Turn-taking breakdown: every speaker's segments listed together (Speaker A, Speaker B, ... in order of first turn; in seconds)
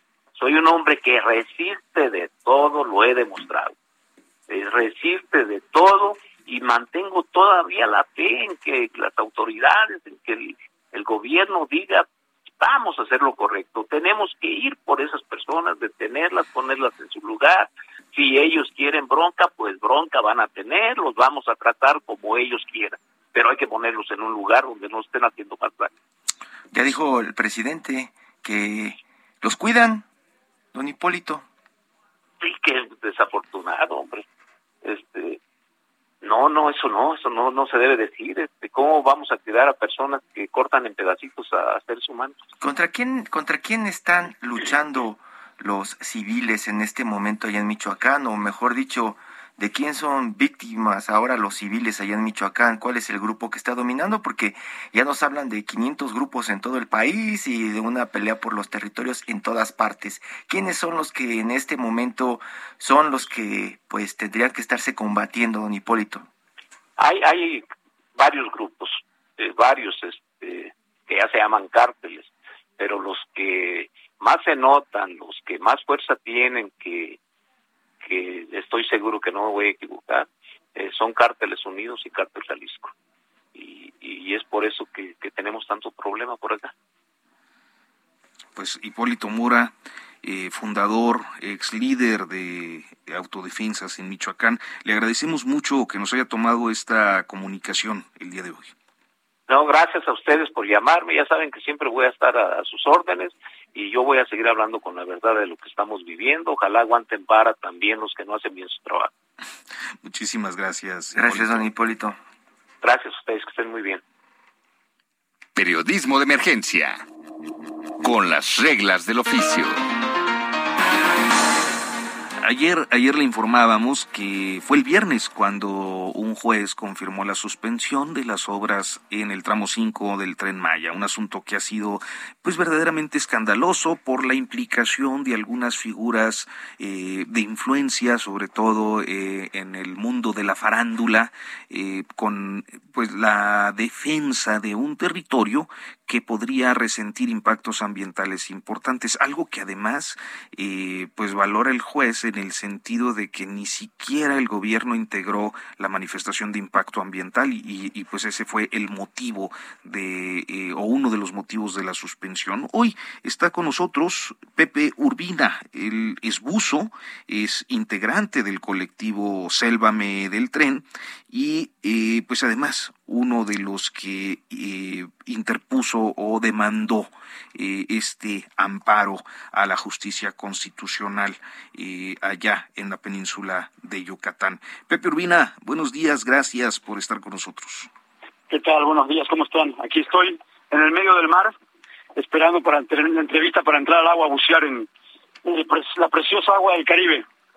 Speaker A: 0.4-3.7, 4.5-12.1, 12.6-25.9, 32.4-34.2, 34.8-35.4, 36.2-42.4, 67.0-67.6, 68.2-77.2, 78.0-82.9, 83.5-86.7, 99.5-109.1, 112.8-114.0
Speaker B: 26.7-30.1, 30.7-31.4, 42.6-66.3, 111.1-112.2
Speaker C: 88.5-98.7, 110.0-111.7, 122.4-187.9
Speaker D: 115.5-117.0, 118.0-119.8
Speaker E: 188.5-191.5, 192.2-194.9, 195.4-197.2